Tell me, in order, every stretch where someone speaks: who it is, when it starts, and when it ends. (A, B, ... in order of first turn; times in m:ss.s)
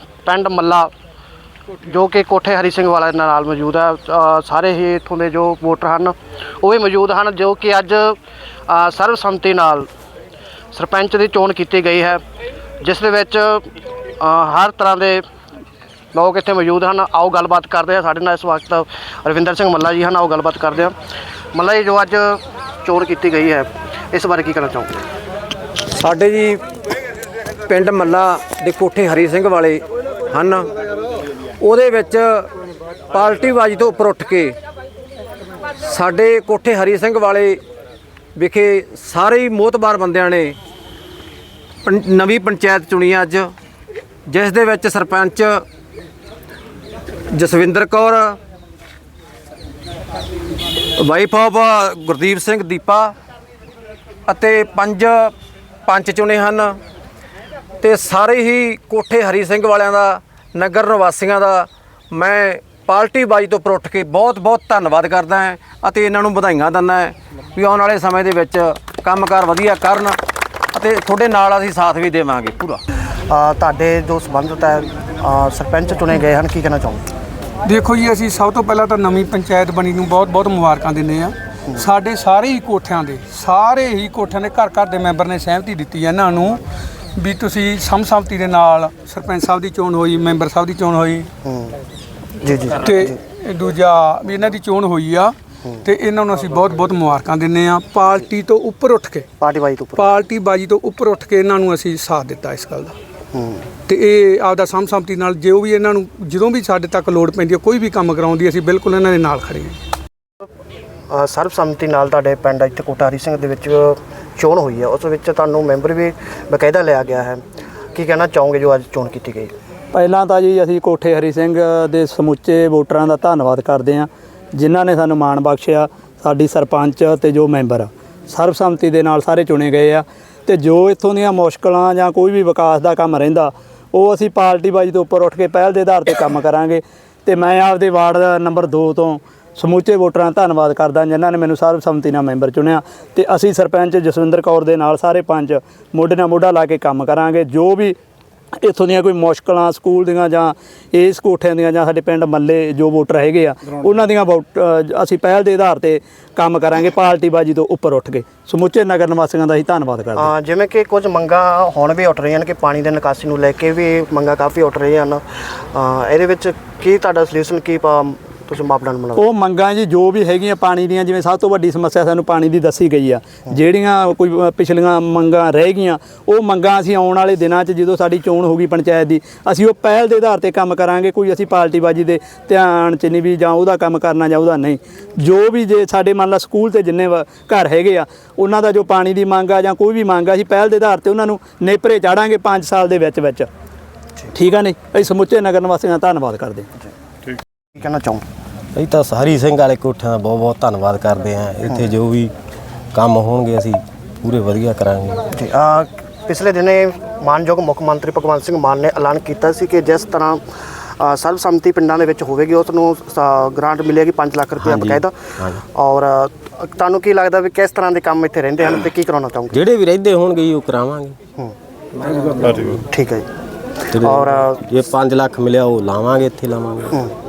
0:00.2-0:00.9 A
0:01.8-0:08.2 A
0:08.7-0:09.9 A
0:10.7-0:12.2 A
0:12.8-0:13.7 A
0:14.2-0:15.2 A
0:16.1-0:20.9 A
0:21.5-0:25.0 A
0:25.9-0:26.6 B
0:27.7-0:30.7 B
0:31.6-0:32.5 B
0:33.1-0:34.5 B
0:35.8-0:37.6 B
0:38.4-0:40.6 B
0:41.8-0:43.5 B
0:44.3-0:45.6 B
0:47.3-0:48.4 B
0:51.0-0:53.1 B
0:54.3-0:55.3 B
0:55.8-0:56.8 B
0:57.8-1:10.2 B
1:10.7-1:12.8 B
1:13.3-1:17.0 A
1:17.6-1:26.6 C
1:27.2-1:31.3 C
1:31.4-1:31.8 A
1:32.4-1:33.2 A
1:32.8-1:39.3 C
1:39.4-1:40.1 A
1:40.0-1:42.9 C
1:43.3-1:43.7 A
1:43.8-1:49.8 C
1:51.1-1:57.4 A
1:57.9-1:59.5 A
1:59.9-2:28.0 D
2:28.6-2:40.3 D
2:40.2-2:49.2 A
2:49.2-3:13.5 D
3:14.3-3:16.7 D
3:17.8-3:18.2 A
3:18.7-3:22.3 E
3:22.9-3:25.2 E
3:25.3-3:30.4 A
3:31.0-3:39.6 A
3:34.6-3:35.6 E
3:39.5-3:41.2 E
3:42.4-3:42.7 E
3:42.7-3:43.3 A
3:43.9-3:47.0 E
3:44.0-3:44.6 A